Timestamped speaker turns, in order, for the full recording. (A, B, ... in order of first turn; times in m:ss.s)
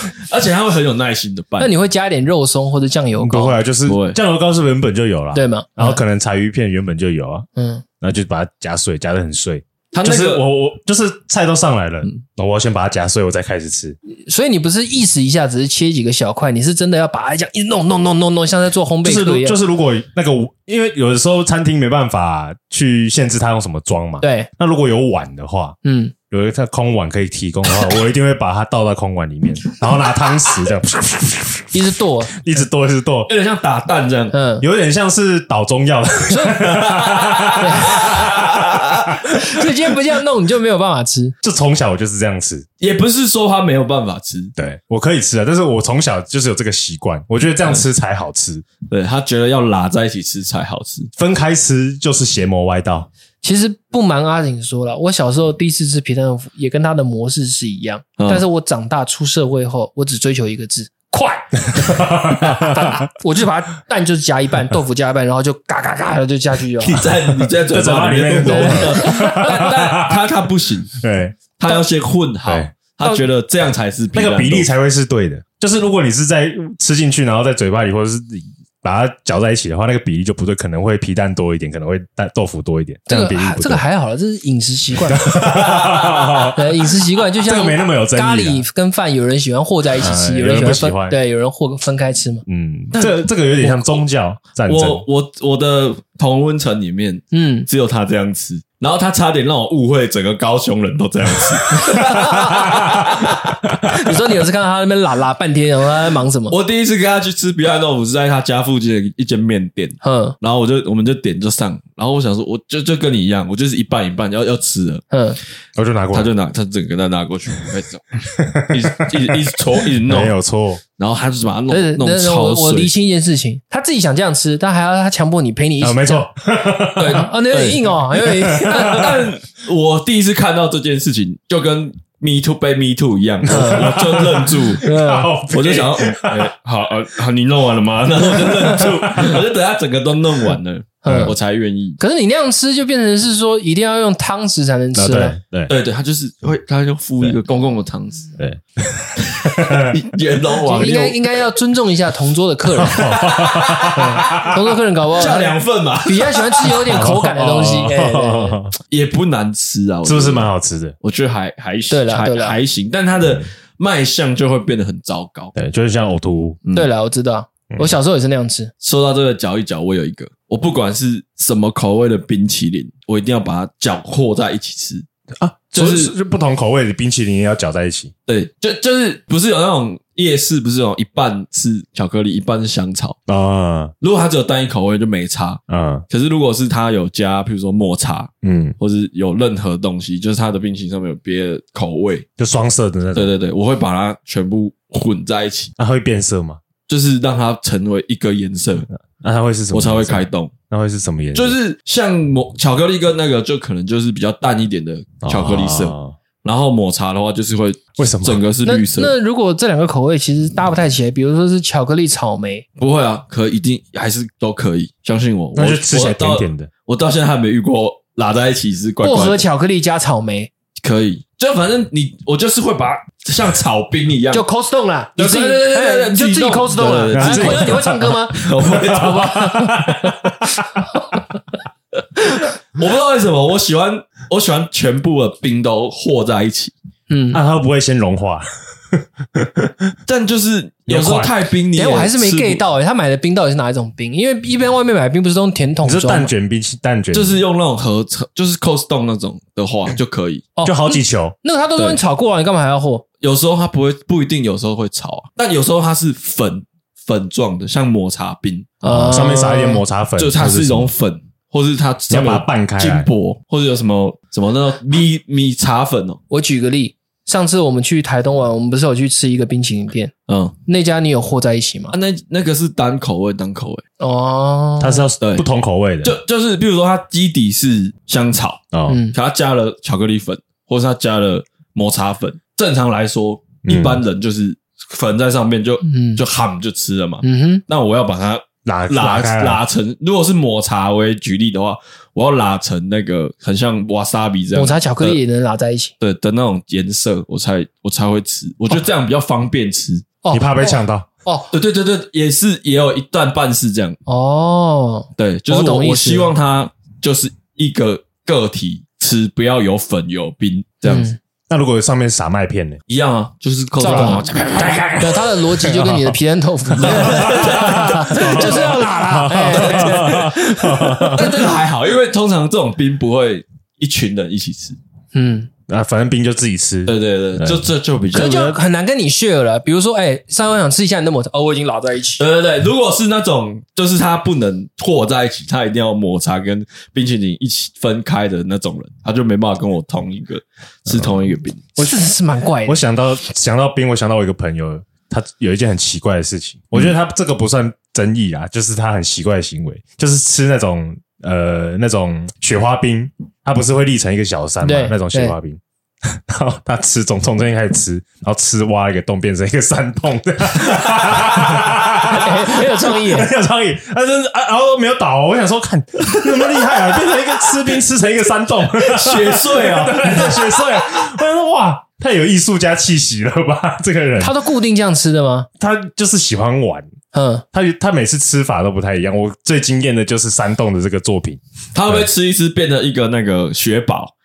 0:00.2-0:01.7 A
0:01.6-0:03.6 B
0:03.2-0:07.5 C
0:03.9-0:04.2 A
0:05.3-0:06.0 B
0:07.6-0:07.8 B
0:08.0-0:14.0 C
0:09.9-0:10.4 A
0:14.3-0:19.6 B
0:19.0-0:25.8 C
0:24.2-0:24.5 B
0:25.8-0:26.1 B
0:26.3-0:33.3 C
0:31.7-0:32.5 B
0:33.3-0:34.4 A
0:34.3-0:34.6 B
0:34.6-0:39.4 C
0:36.3-0:36.7 B
0:36.8-0:39.2 A
0:37.5-0:38.3 B
0:39.3-0:41.4 B
0:41.4-0:42.7 C
0:42.8-0:44.6 A
0:44.6-0:48.6 C
0:48.9-0:51.1 A
0:51.2-0:53.1 C
0:53.4-1:07.1 B
0:58.2-0:58.4 A
1:01.8-1:03.1 C
1:06.8-1:11.0 A
1:07.7-1:10.3 C
1:08.4-1:09.6 B
1:11.0-1:11.4 C
1:11.6-1:14.7 A
1:12.5-1:12.7 C
1:14.2-1:23.8 C
1:23.1-1:32.4 B
1:25.1-1:26.9 C
1:27.4-1:28.6 C
1:30.0-1:31.2 C
1:32.5-1:35.0 C
1:34.7-1:44.0 A
1:37.3-1:37.7 B
1:41.8-1:43.0 B
1:41.9-1:43.0 C
1:43.7-1:44.0 C
1:43.9-1:46.6 B
1:46.5-1:55.0 A
1:50.0-1:50.4 B
1:55.1-1:55.4 B
1:55.8-1:56.3 C
1:56.1-2:00.3 A
1:58.3-2:00.8 C
2:01.0-2:02.9 A
2:01.7-2:06.3 B
2:05.8-2:07.3 C
2:07.0-2:07.9 A
2:07.1-2:09.2 B
2:08.2-2:09.3 C
2:08.8-2:14.9 A
2:13.5-2:14.1 B
2:13.5-2:16.5 C
2:14.8-2:15.3 B
2:15.5-2:22.0 A
2:18.3-2:19.5 C
2:21.0-2:21.4 B
2:21.1-2:21.4 C
2:22.0-2:25.4 B
2:25.0-2:25.7 C
2:25.7-2:28.3 A
2:28.4-2:30.0 C
2:29.2-2:31.4 A
2:30.6-2:33.1 B
2:32.8-2:34.6 C
2:32.8-2:34.5 A
2:33.9-2:38.6 B
2:35.1-2:37.0 A
2:36.8-2:38.8 C
2:38.9-2:40.5 A
2:40.0-2:41.0 C
2:41.0-2:45.5 A
2:41.9-2:42.6 B
2:45.5-2:46.6 C
2:46.8-2:48.7 B
2:48.8-2:55.1 A
2:55.4-2:58.1 C
2:55.8-2:56.1 A
2:58.3-3:03.2 A
3:03.3-3:03.9 C
3:04.0-3:12.3 A
3:05.7-3:06.1 C
3:08.4-3:08.8 C
3:12.4-3:13.4 C
3:13.2-3:15.7 A
3:15.8-3:16.6 C
3:16.9-3:18.9 A
3:19.1-3:21.6 C
3:19.7-3:20.5 A
3:21.4-3:29.1 A
3:25.2-3:26.2 C
3:28.0-3:28.4 C
3:28.6-3:32.7 B
3:32.8-3:39.4 A
3:35.6-3:36.7 C
3:39.0-3:40.5 B
3:40.8-3:44.5 A
3:44.3-3:48.4 B
3:45.2-3:49.7 A
3:47.1-3:50.8 C
3:49.0-3:50.2 B
3:52.2-3:56.7 A
3:57.1-3:57.4 B
3:57.3-4:00.0 C
4:00.1-4:02.6 A
4:00.9-4:01.3 C
4:01.8-4:06.3 B
4:05.8-4:07.4 C
4:07.1-4:10.5 A
4:10.6-4:13.0 B
4:10.6-4:11.4 C
4:13.2-4:18.8 A
4:18.8-4:19.8 B
4:18.8-4:20.9 C
4:20.2-4:26.2 A
4:22.1-4:23.1 C
4:26.3-4:30.1 B
4:30.3-4:30.6 A
4:30.7-4:31.9 B
4:31.9-4:33.8 A
4:34.0-4:35.1 B
4:34.8-4:36.2 C
4:35.2-4:35.5 A
4:36.0-4:55.2 A
4:38.7-4:39.0 C
4:38.9-4:39.2 B
4:43.7-4:44.0 C
4:45.8-4:46.2 B
4:47.2-4:47.6 B
4:48.6-4:49.6 C
4:54.6-4:55.9 B
4:56.0-5:00.0 A
5:00.2-5:01.5 B
5:00.3-5:01.1 C
5:01.5-5:04.0 A
5:04.1-5:06.3 B
5:05.2-5:11.1 A
5:10.8-5:11.2 B
5:11.5-5:12.8 C
5:12.9-5:15.4 A
5:13.8-5:21.4 B
5:13.9-5:14.8 C
5:15.7-5:16.1 C
5:16.8-5:18.8 A
5:16.9-5:21.4 C
5:19.5-5:24.8 A
5:25.1-5:25.5 B
5:25.7-5:27.7 C
5:26.9-5:28.5 A
5:28.1-5:32.2 B
5:28.2-5:28.5 C
5:32.2-5:41.6 A
5:40.9-5:41.2 C
5:41.8-5:42.8 B
5:41.8-5:42.1 C
5:42.6-6:14.4 C
5:54.6-5:55.4 B
6:02.0-6:03.3 B
6:08.7-6:11.0 A
6:14.2-6:15.5 B
6:15.6-6:16.9 C
6:17.1-6:17.4 B
6:17.5-6:22.1 C
6:21.7-6:24.1 A